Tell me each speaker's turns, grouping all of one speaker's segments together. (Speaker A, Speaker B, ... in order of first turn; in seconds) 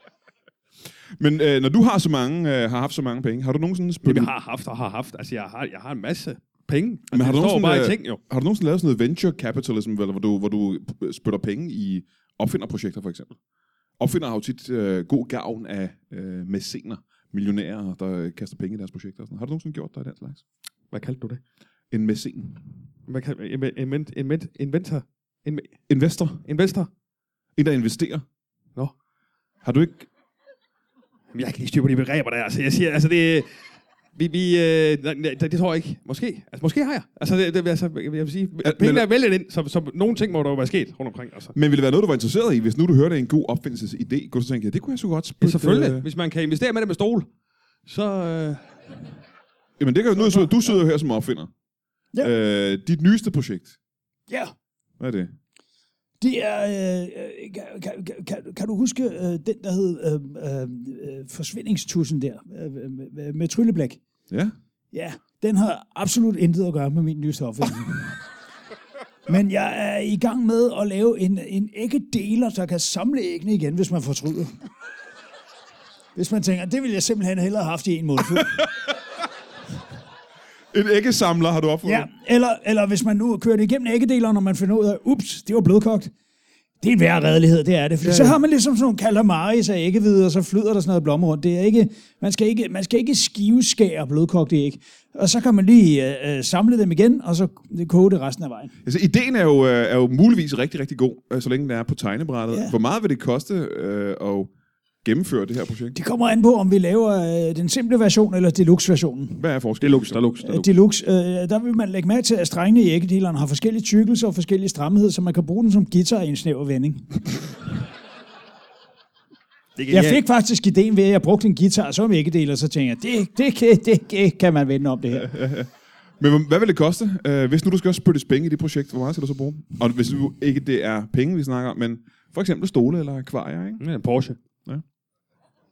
Speaker A: 1.2-4.3, 7.1-13.3, 14.0-20.4, 21.9-22.6, 25.9-26.4, 27.6-28.2, 29.6-30.1, 38.6-39.0, 41.5-46.0, 49.8-51.5, 52.2-53.7, 55.0-55.3, 80.7-82.1, 88.0-88.4, 98.8-104.5, 105.0-106.0, 109.4-110.2, 125.1-133.8
Speaker B: 4.0-8.2, 20.9-21.4, 23.1-25.8, 26.4-26.9, 31.3-33.5, 34.1-41.5, 45.4-47.3, 47.9-48.8, 109.8-110.7, 119.8-120.2, 133.8-134.4
Speaker C: 56.2-64.0, 64.9-68.2, 69.3-74.6, 76.1-78.6, 81.8-86.1, 86.8-98.7, 105.9-109.4, 110.4-117.2, 119.9-125.3